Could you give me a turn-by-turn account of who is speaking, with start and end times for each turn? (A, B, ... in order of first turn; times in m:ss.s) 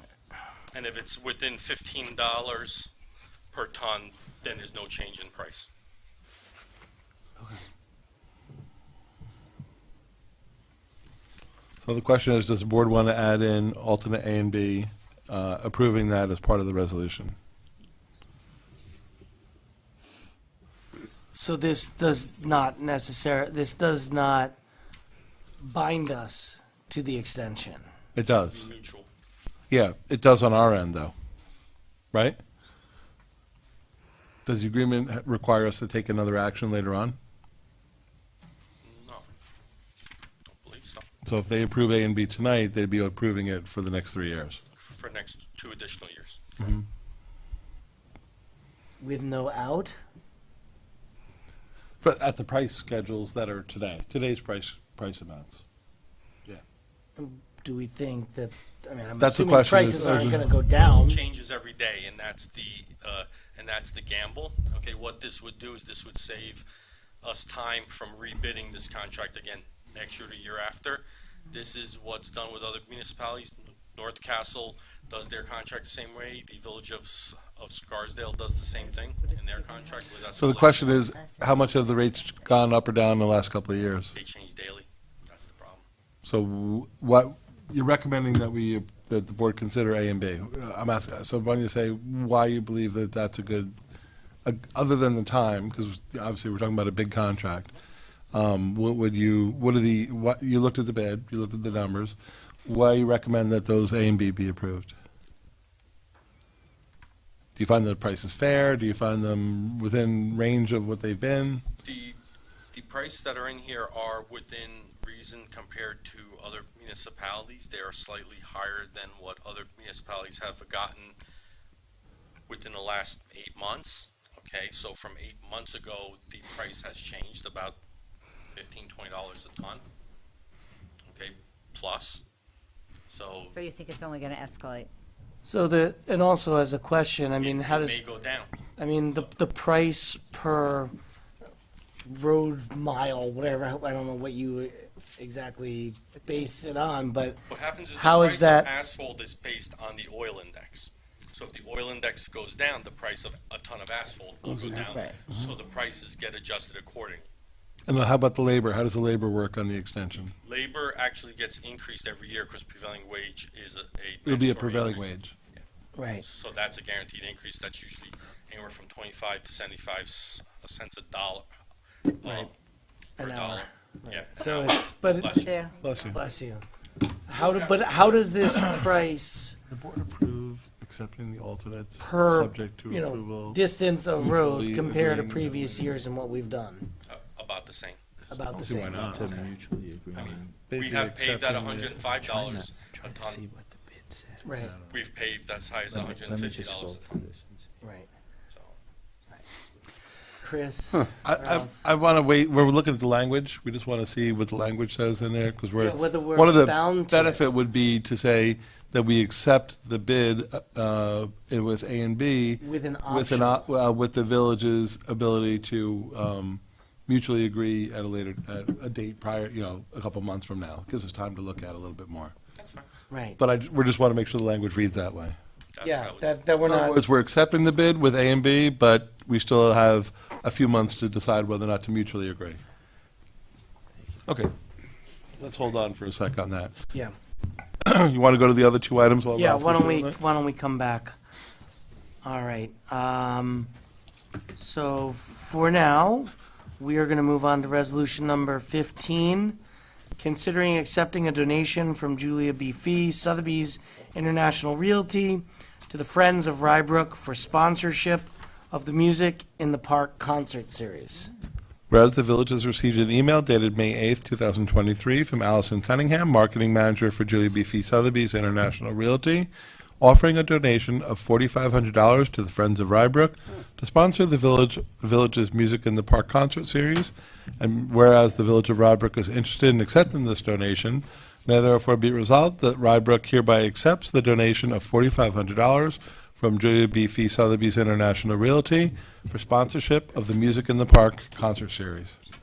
0:00.7-0:02.9 A
0:03.5-0:05.7 A
0:11.8-0:17.4 B
0:21.3-0:24.6 C
0:25.6-0:27.9 C
0:28.2-0:28.7 B
0:28.3-0:29.1 A
0:29.7-0:31.1 B
0:32.1-0:32.4 B
0:34.5-0:37.2 B
0:38.8-0:39.3 A
0:40.5-0:41.1 A
0:41.3-0:44.6 B
0:44.8-0:46.7 A
0:46.6-0:46.8 B
0:49.0-0:50.0 C
0:52.0-0:55.6 B
0:57.2-1:01.2 C
0:59.2-1:00.5 B
1:00.9-1:06.6 A
1:07.2-1:20.9 A
1:20.3-1:24.1 B
1:21.2-1:21.6 D
1:24.1-1:25.8 A
1:26.2-1:33.7 B
1:34.4-1:37.7 B
1:38.3-1:44.9 B
1:47.6-1:51.6 B
1:51.8-1:52.2 A
1:52.7-2:01.2 A
2:02.5-2:07.8 A
2:08.6-2:09.8 A
2:11.1-2:12.2 A
2:13.1-2:13.6 A
2:13.5-2:14.9 D
2:15.4-2:18.0 C
2:17.4-2:18.5 A
2:18.8-2:20.9 C
2:22.0-2:27.4 C
2:27.5-2:37.3 A
2:27.9-2:28.7 C
2:34.5-2:34.9 B
2:34.8-2:35.2 D
2:37.9-2:40.3 B
2:40.4-2:45.6 A
2:44.2-2:45.3 B
2:46.0-2:46.2 C
2:46.2-2:51.5 A
2:52.2-2:52.5 A
2:52.2-2:52.5 C
2:53.2-2:55.7 A
2:53.2-2:55.5 C
2:55.4-2:55.9 D
2:55.8-2:56.2 B
2:56.0-2:56.6 C
2:57.3-2:59.6 C
2:57.3-2:58.2 A
2:59.7-3:03.6 B
3:02.0-3:06.9 C
3:04.2-3:05.5 B
3:05.4-3:05.7 E
3:07.1-3:08.0 A
3:08.3-3:09.5 C
3:08.6-3:09.4 B
3:08.6-3:10.6 E
3:10.1-3:13.4 A
3:10.7-3:12.0 B
3:11.7-3:14.7 E
3:14.4-3:14.7 C
3:14.9-3:17.2 A
3:15.9-3:17.8 E
3:17.8-3:18.1 C
3:18.5-3:18.7 A
3:20.4-3:21.7 C
3:21.2-3:42.3 B
3:25.8-3:27.4 C
3:32.6-3:33.7 C
3:42.6-3:42.8 A
3:43.1-3:43.4 C
3:43.4-3:45.4 B
3:45.8-3:46.4 A
3:45.8-3:47.0 C
3:46.6-3:52.6 B
3:54.3-3:54.5 B
3:55.4-3:56.7 B
3:57.8-4:00.2 B
3:59.4-4:01.1 C
4:02.2-4:03.7 C
4:04.6-4:09.6 C
4:10.2-4:21.3 C
4:21.9-4:29.5 B
4:30.0-4:52.2 B